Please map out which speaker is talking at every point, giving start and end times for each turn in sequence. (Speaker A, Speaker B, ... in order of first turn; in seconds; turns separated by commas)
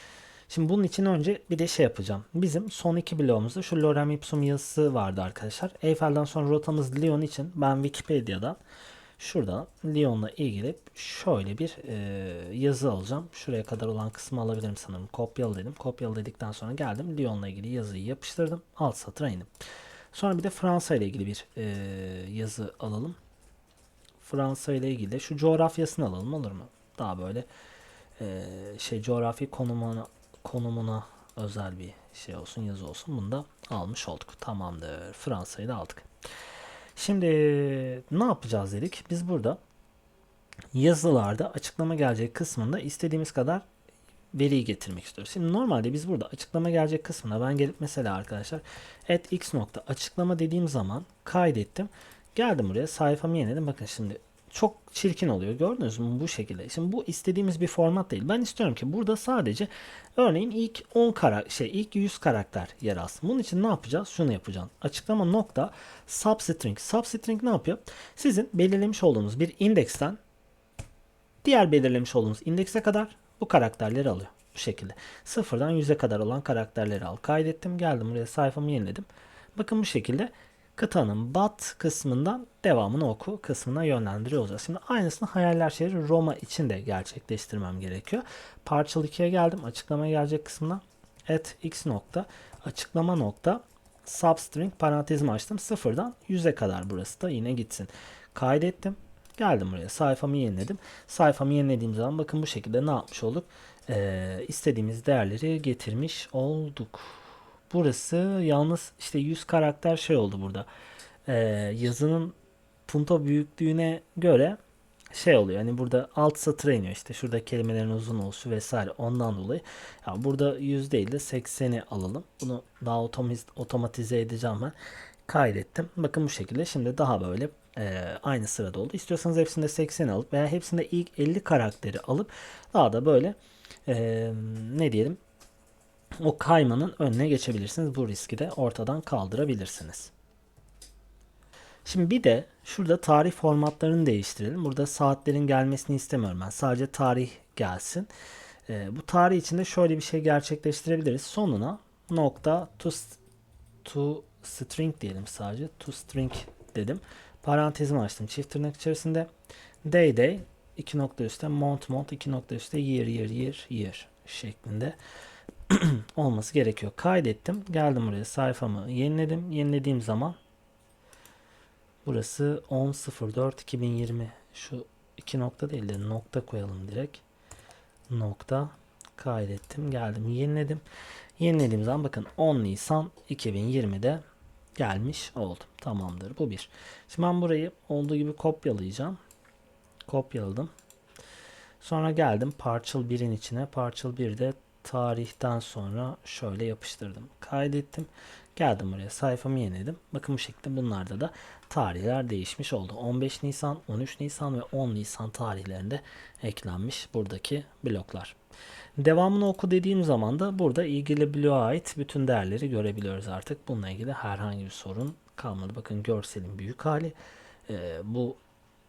Speaker A: 0.5-8.6, Speaker A: 9.2-19.5, Speaker A: 20.1-23.2, Speaker A: 24.2-27.5, Speaker A: 28.2-36.1, Speaker A: 37.0-39.6, Speaker A: 40.7-43.6, Speaker A: 44.3-70.2, Speaker A: 71.4-110.7, Speaker A: 111.3-112.3, Speaker A: 112.9-114.6, Speaker A: 115.1-124.8, Speaker A: 125.3-133.4, Speaker A: 133.9-135.2, Speaker A: 136.2-140.1, Speaker A: 141.8-148.1, Speaker A: 148.7-153.2, Speaker A: 153.8-159.3, Speaker A: 159.8-165.0, Speaker A: 165.7-170.4, Speaker A: 172.1-177.2, Speaker A: 178.1-180.8, Speaker A: 181.4-184.2, Speaker A: 184.8-189.2, Speaker A: 190.1-190.7, Speaker A: 191.8-208.4, Speaker A: 209.0-217.2, Speaker A: 217.7-218.4